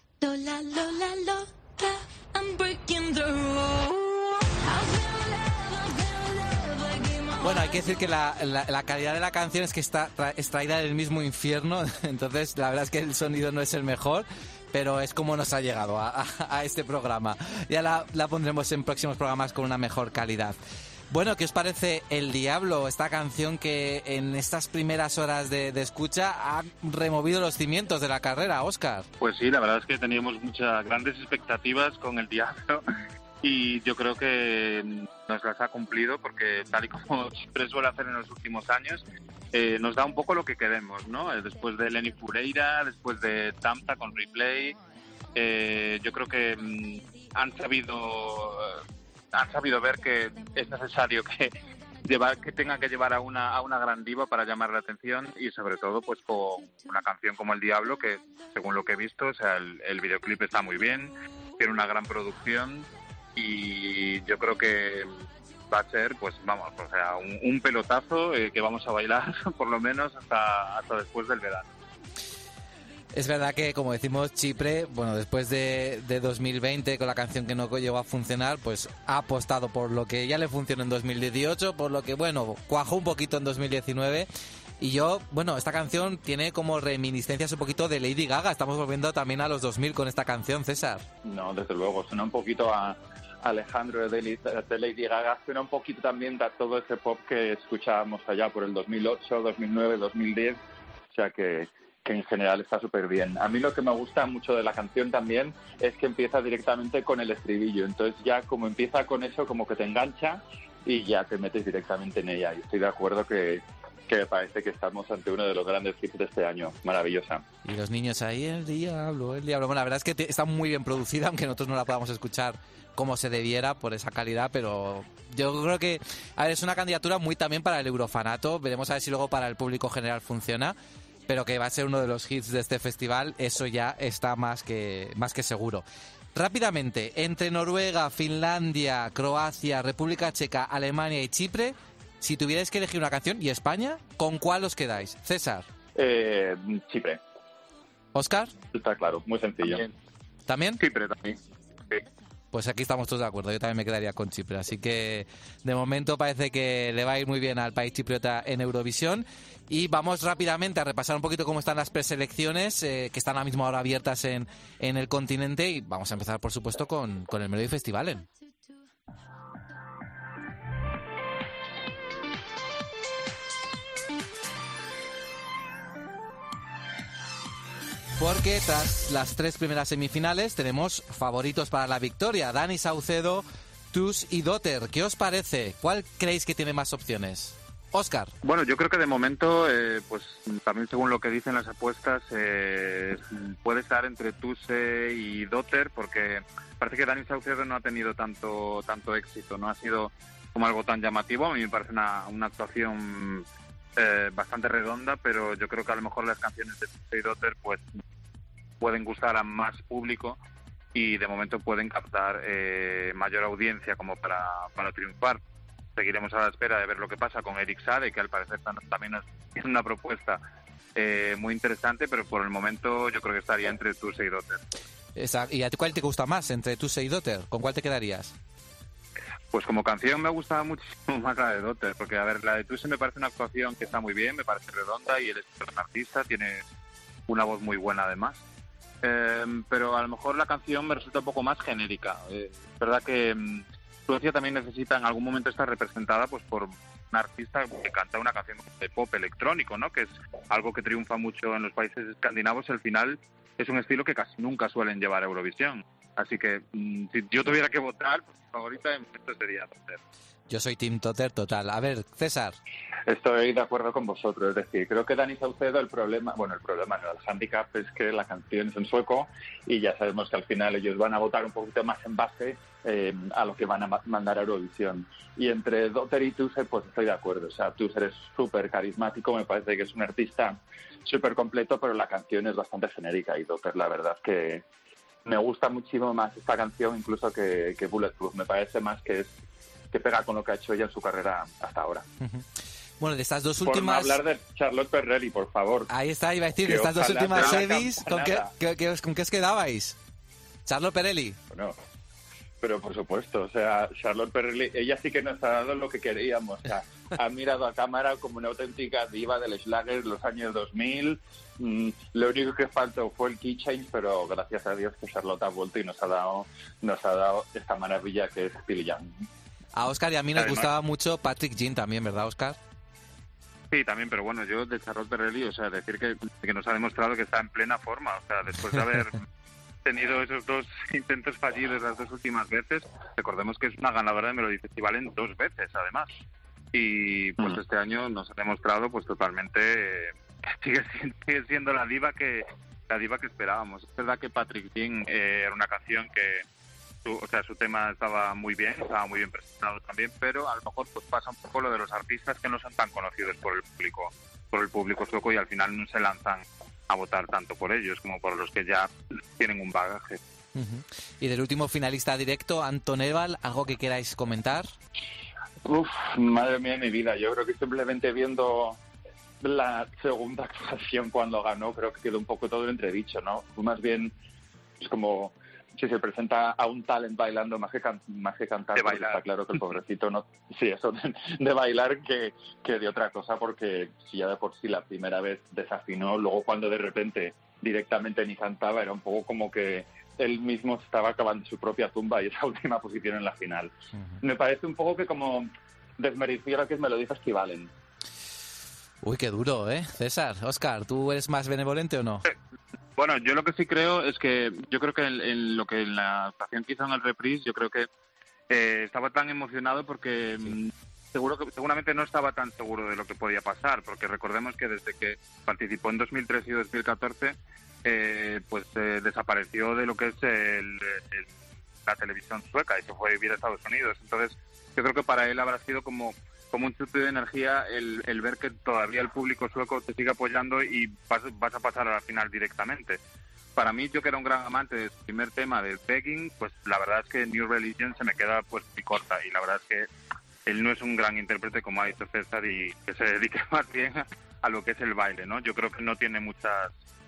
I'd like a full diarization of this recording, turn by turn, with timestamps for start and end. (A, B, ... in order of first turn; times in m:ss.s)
0:00.2-0:08.0 A
0:07.4-0:20.6 B
0:21.1-0:29.1 B
0:29.2-0:32.8 C
0:33.4-0:44.8 C
0:45.3-0:48.8 C
0:49.3-0:51.5 C
0:52.0-1:05.1 C
1:05.7-1:11.7 C
1:13.1-1:24.3 B
1:24.8-1:31.0 B
1:31.2-1:40.6 D
1:41.1-1:57.4 D
1:57.6-2:10.8 B
2:11.3-2:25.7 B
2:25.9-2:27.2 D
2:28.1-2:28.5 B
2:28.7-2:29.8 D
2:30.5-2:30.8 B
2:30.8-2:31.4 C
2:32.5-2:48.2 B
2:58.2-3:08.3 B
3:08.4-3:23.4 C
3:24.0-3:27.9 C
3:28.8-3:30.4 C
3:30.9-3:35.4 C
3:36.0-3:40.4 C
3:41.0-3:44.6 C
3:45.2-3:48.3 B
3:49.5-3:56.6 C
3:57.3-3:58.4 C
3:59.0-4:20.0 C
4:20.5-4:22.6 B
4:23.0-4:44.6 D
4:45.2-4:49.4 D
4:49.9-4:52.0 D
4:53.0-4:54.2 B
4:53.6-4:55.9 D
4:55.9-5:00.0 B
4:56.6-4:58.5 D
5:00.6-5:01.4 B
5:01.5-5:01.8 D
5:02.6-5:19.2 D
5:19.8-5:22.6 B
5:20.4-5:20.7 C
5:23.7-5:29.2 C
5:29.8-5:36.1 C
5:36.7-5:46.4 C
5:47.0-6:00.2 C
6:00.5-6:04.7 B
6:05.6-6:08.8 D
6:09.4-6:14.1 D
6:14.8-6:37.7 D
6:18.8-6:19.2 C
6:39.0-6:42.2 B
6:43.0-6:47.9 C
6:48.5-7:01.3 C
7:01.9-7:13.0 C
7:13.6-7:19.9 C
7:20.4-7:26.8 C